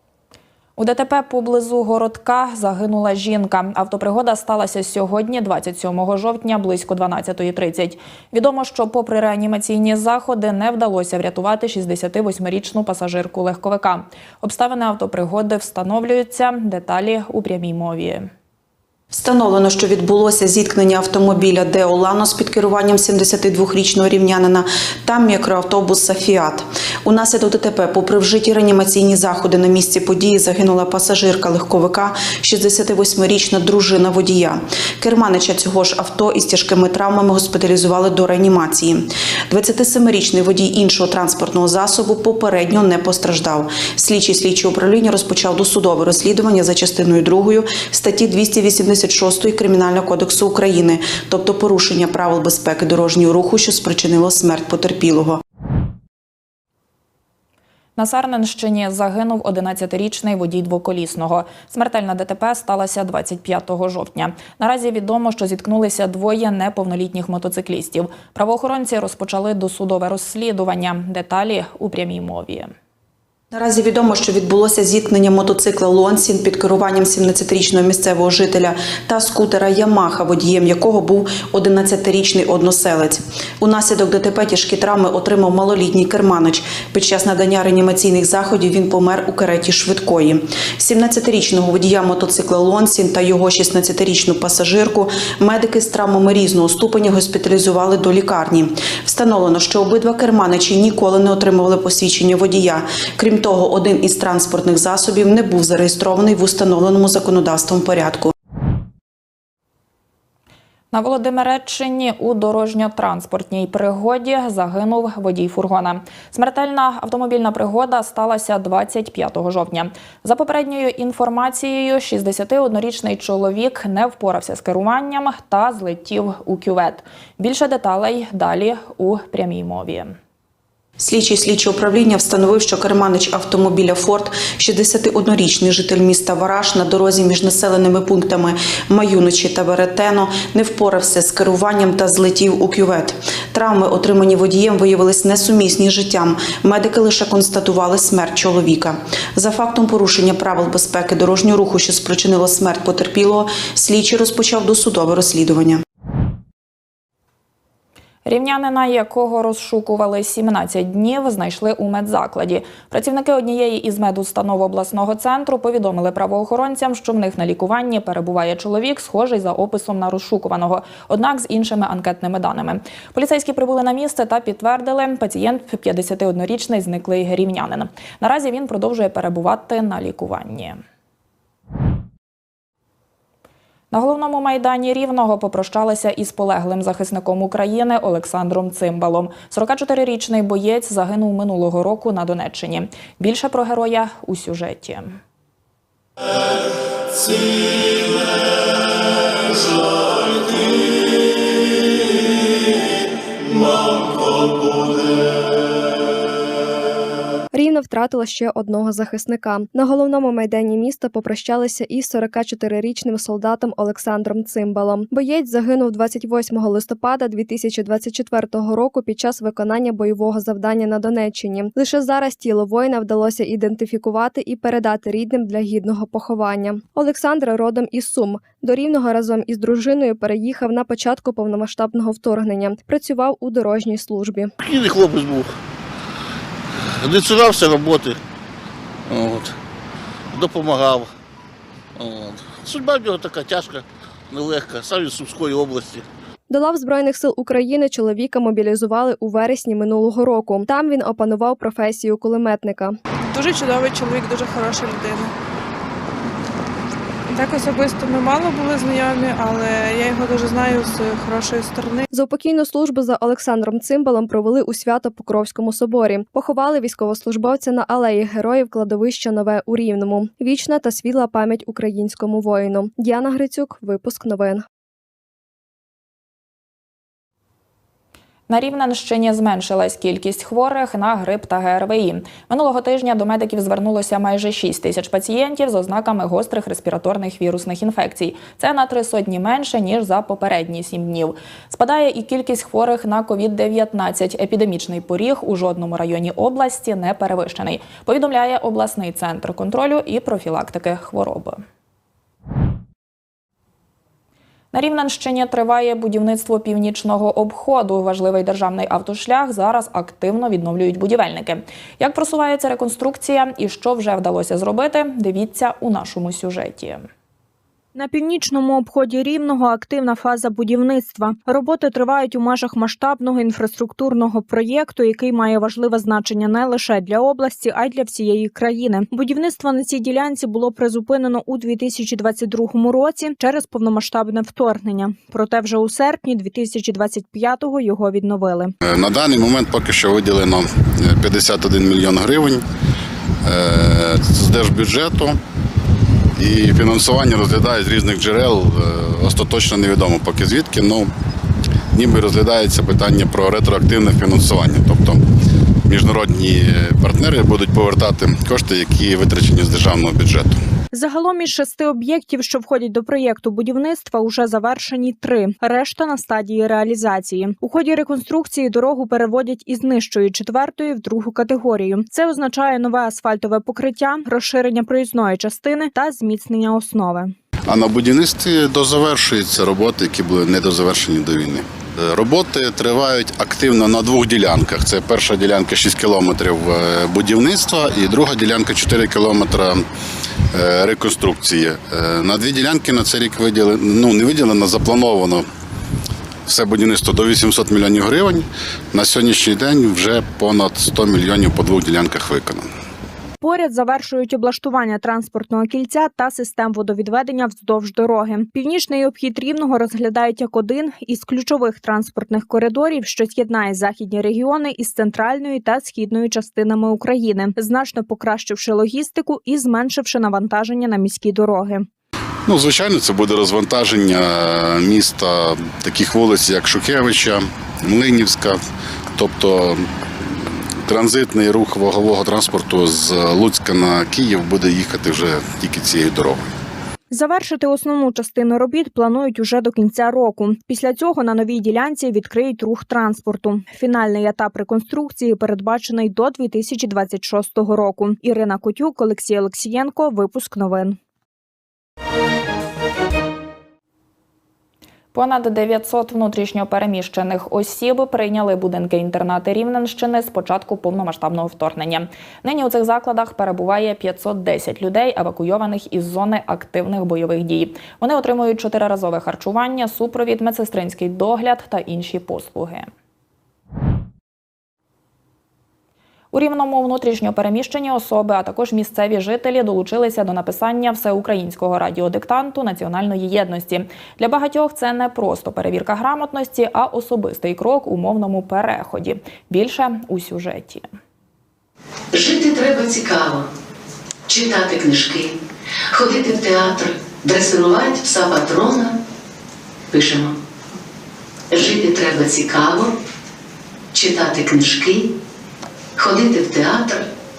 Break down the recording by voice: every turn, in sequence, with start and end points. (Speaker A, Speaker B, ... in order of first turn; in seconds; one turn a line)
Speaker A: 0.8-18.3
Speaker B: 19.1-55.4
Speaker A: 58.0-72.7
Speaker B: 73.5-108.3
Speaker A: 110.9-130.2
Speaker B: 131.0-155.8
Speaker A: 158.3-180.8
Speaker A: 183.9-195.2
Speaker C: 207.5-234.5
Speaker D: 234.7-235.4
Speaker D: 237.1-238.1
Speaker D: 239.1-239.4
Speaker D: 240.4-241.1
Speaker D: 242.1-243.8
Speaker D: 244.3-246.0
Speaker C: 246.5-252.9
Speaker E: 253.3-255.3
Speaker E: 257.3-262.1
Speaker C: 262.1-274.6
Speaker A: 278.5-301.6
Speaker A: 304.7-317.1
Speaker F: 317.9-338.7
Speaker G: 338.8-342.6
Speaker G: 343.4-345.4
Speaker G: 346.4-351.1
Speaker G: 351.9-355.2
Speaker G: 355.9-360.6
Speaker F: 360.9-377.3
Speaker G: 377.7-389.8
Speaker G: 390.5-395.4
Speaker G: 396.5-402.7
Speaker F: 403.4-421.8
Speaker G: 422.5-428.6
Speaker G: 429.1-429.8
Speaker G: 430.9-436.4
Speaker F: 437.1-451.0
Speaker A: 455.1-472.9
Speaker A: 476.3-490.9
Speaker H: 492.1-493.4
Speaker H: 494.3-495.3
Speaker H: 495.9-498.9
Speaker H: 499.9-500.3
Speaker H: 501.5-502.9
Speaker H: 503.9-505.0
Speaker H: 506.0-507.0